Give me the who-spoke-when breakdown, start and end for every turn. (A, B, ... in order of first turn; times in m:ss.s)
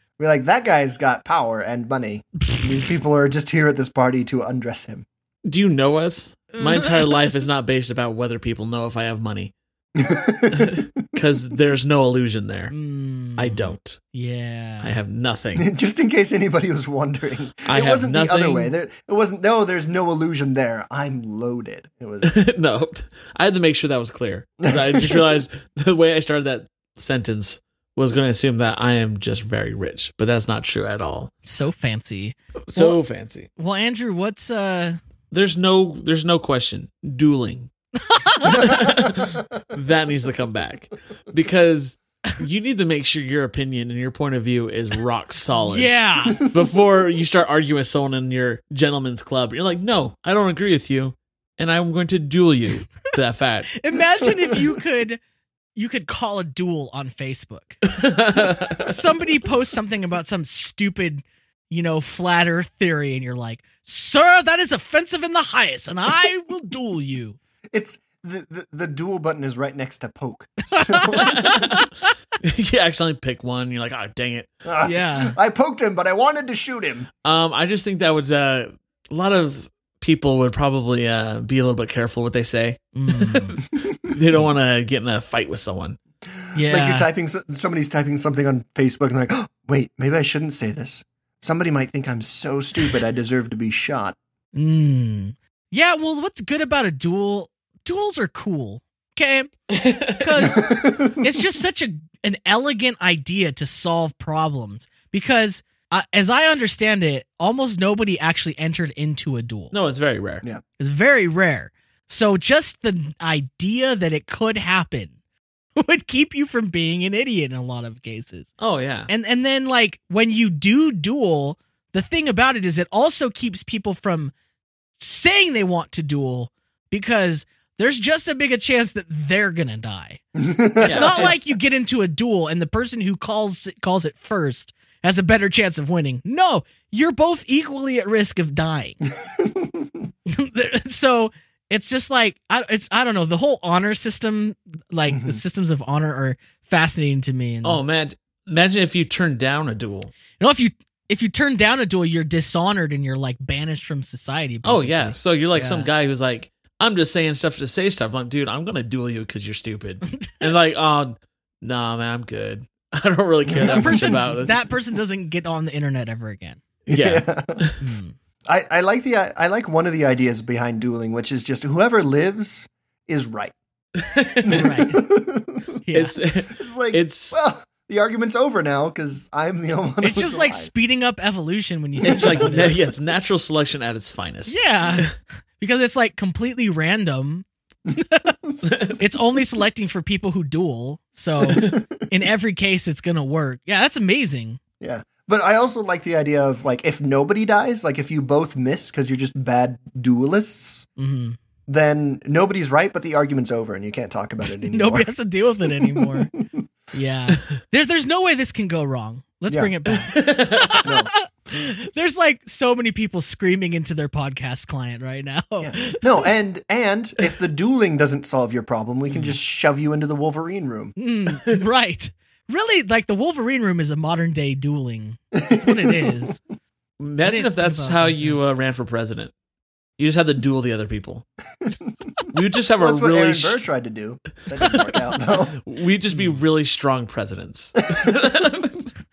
0:00.2-0:05.0 A
0:05.4-0:09.5 B
0:06.6-0:07.2 C
0:10.0-0:11.0 A
0:10.5-0:12.7 B
0:12.7-0:14.9 C
0:13.4-0:14.0 B
0:14.8-0:15.7 B
0:15.6-0:22.4 A
0:17.7-0:18.7 B
0:22.2-0:31.3 B
0:24.6-0:25.2 A
0:31.4-0:33.0 C
0:32.7-0:33.5 B
0:33.6-0:35.0 C
0:35.3-0:37.7 B
0:38.0-0:38.8 C
0:38.4-0:53.8 B
0:45.6-0:46.4 C
0:53.8-0:55.2 C
0:55.7-0:57.8 C
0:57.9-0:58.8 B
0:58.7-1:07.4 C
1:07.7-1:11.3 A
1:10.7-1:12.0 C
1:11.1-1:11.9 B
1:12.4-1:14.5 B
1:14.6-1:17.1 A
1:14.8-1:15.3 C
1:17.2-1:26.0 B
1:23.0-1:23.6 C
1:23.8-1:24.4 A
1:26.5-1:27.1 C
1:26.6-1:34.2 A
1:34.5-1:39.5 C
1:39.7-1:40.2 B
1:40.2-1:49.7 C
1:40.5-1:41.4 A
1:49.7-1:50.4 B
1:50.8-1:55.1 C
1:55.8-1:58.5 C
1:58.6-1:59.1 B
1:59.1-2:04.3 C
2:05.0-2:10.2 C
2:10.4-2:11.4 A
2:10.8-2:19.0 C
2:10.8-2:11.4 B
2:19.1-2:20.1 A
2:20.3-2:27.8 C
2:25.1-2:25.4 A
2:27.6-2:30.1 B
2:30.4-2:35.9 C
2:34.6-2:44.6 B
2:43.5-2:44.3 A
2:43.6-2:46.6 C
2:46.9-2:47.8 B
2:46.9-2:47.6 A
2:47.8-2:48.1 C
2:48.5-2:53.5 A
2:54.0-2:54.6 B
2:54.4-2:55.8 A
2:54.5-2:55.0 C
2:55.8-2:56.2 C
2:55.9-2:57.4 B
2:56.5-3:00.7 A
3:00.0-3:02.8 C
3:02.0-3:02.7 A
3:02.0-3:05.1 B
3:04.5-3:08.3 C
3:08.4-3:09.0 A
3:08.6-3:09.0 B
3:09.0-3:14.6 C
3:11.4-3:12.0 A
3:14.8-3:20.9 A
3:21.0-3:21.4 C
3:21.7-3:25.1 A
3:24.7-3:26.3 C
3:25.7-3:26.7 A
3:26.9-3:36.0 C
3:29.5-3:30.1 A
3:30.1-3:30.8 B
3:30.8-3:31.1 A
3:35.6-3:40.9 A
3:41.0-3:46.4 C
3:45.3-3:46.2 A
3:47.0-3:49.3 B
3:47.2-3:48.4 C
3:50.0-3:51.3 B
3:52.3-3:53.6 B
3:52.8-3:55.6 A
3:55.3-3:58.8 B